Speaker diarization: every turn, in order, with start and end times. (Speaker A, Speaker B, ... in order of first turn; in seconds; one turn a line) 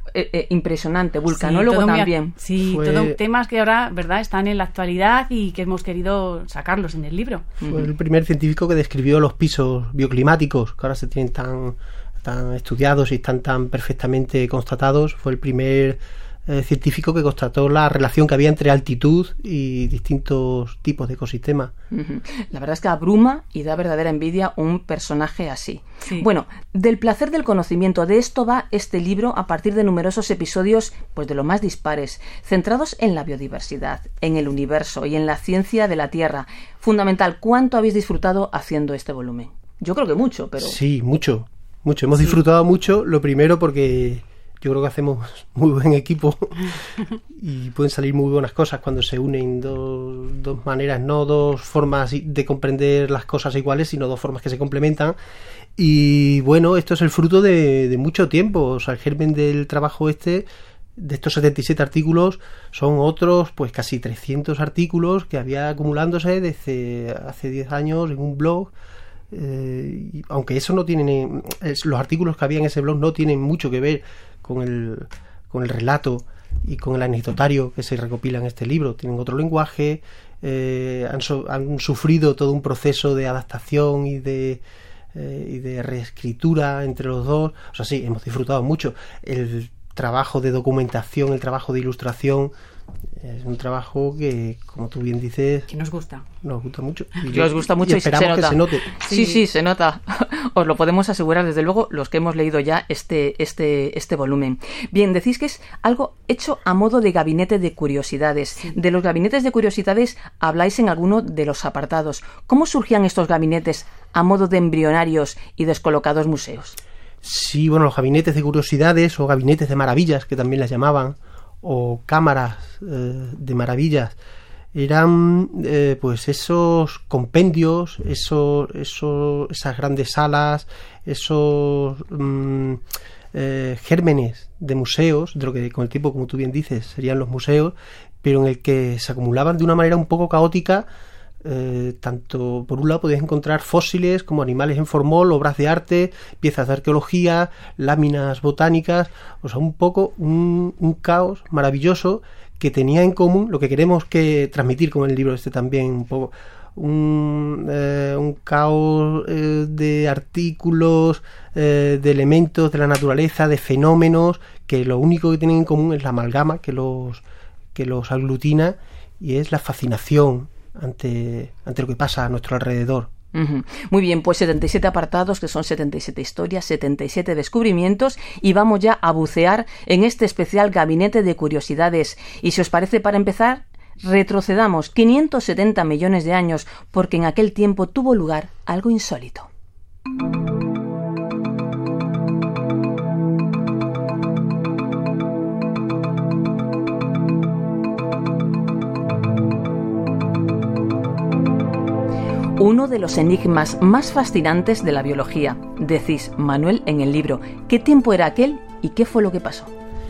Speaker A: 0.1-2.3
Speaker B: 1.3-7.5
Speaker C: 2.6-3.2
Speaker A: 7.6-7.9
Speaker C: 7.7-21.7
Speaker A: 21.9-40.8
Speaker C: 40.6-55.1
Speaker C: 55.8-68.7
Speaker C: 69.3-84.6
Speaker C: 85.1-92.5
Speaker C: 93.2-95.7
Speaker B: 95.7-96.2
Speaker C: 96.4-98.9
Speaker A: 97.3-116.8
Speaker B: 99.0-99.4
Speaker C: 117.2-124.2
Speaker C: 124.7-140.8
Speaker C: 141.4-167.2
Speaker C: 167.7-173.1
Speaker A: 173.3-189.5
Speaker A: 202.6-209.7